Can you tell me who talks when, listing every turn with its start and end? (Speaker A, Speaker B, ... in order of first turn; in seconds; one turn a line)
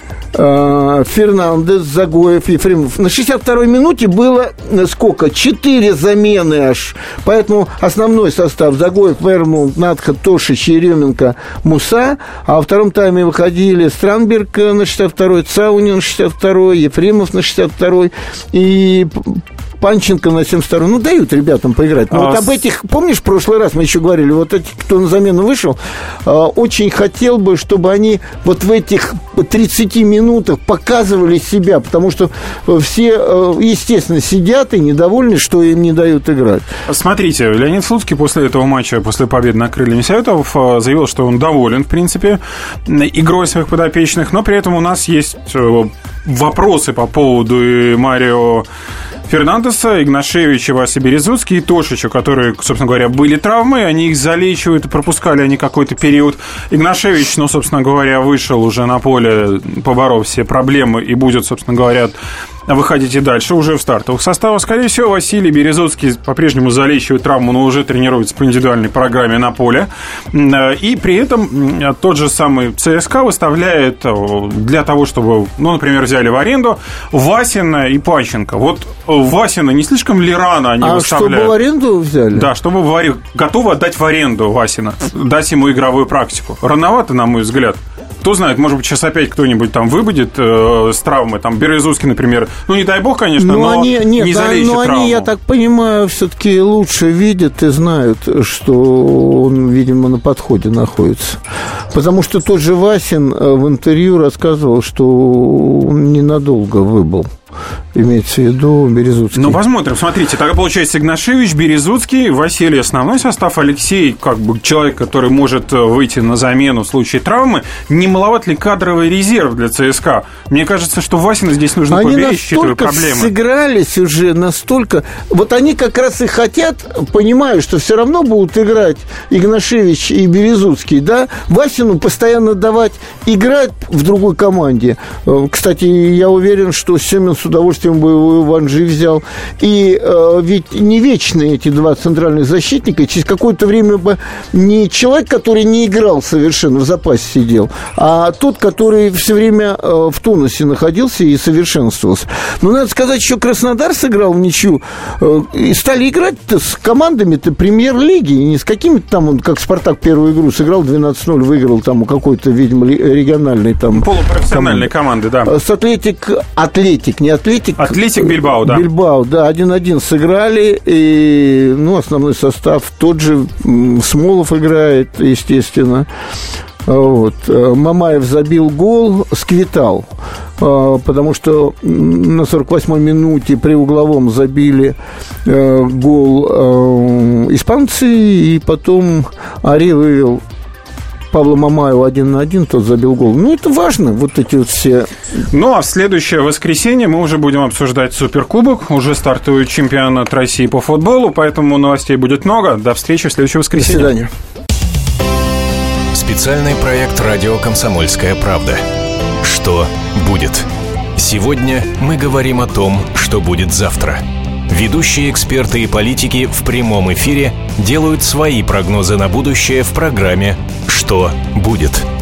Speaker A: 0.3-36.7
Speaker B: 22.1-22.6
Speaker B: 36.9-48.6
Speaker B: 49.3-62.1
Speaker B: 62.7-81.5
Speaker A: 80.8-82.5
Speaker B: 82.3-95.3
Speaker A: 93.4-101.4
Speaker A: 101.9-107.3
Speaker A: 107.9-109.6
Speaker B: 109.3-123.3
Speaker A: 121.9-164.9
Speaker B: 163.9-165.5
Speaker A: 165.4-176.1
Speaker B: 167.8-168.8
Speaker A: 176.8-180.1
Speaker A: 180.6-190.4
Speaker A: 191.3-195.1
Speaker B: 195.5-204.1
Speaker A: 203.7-204.3
Speaker C: 206.1-208.8
Speaker C: 209.4-222.1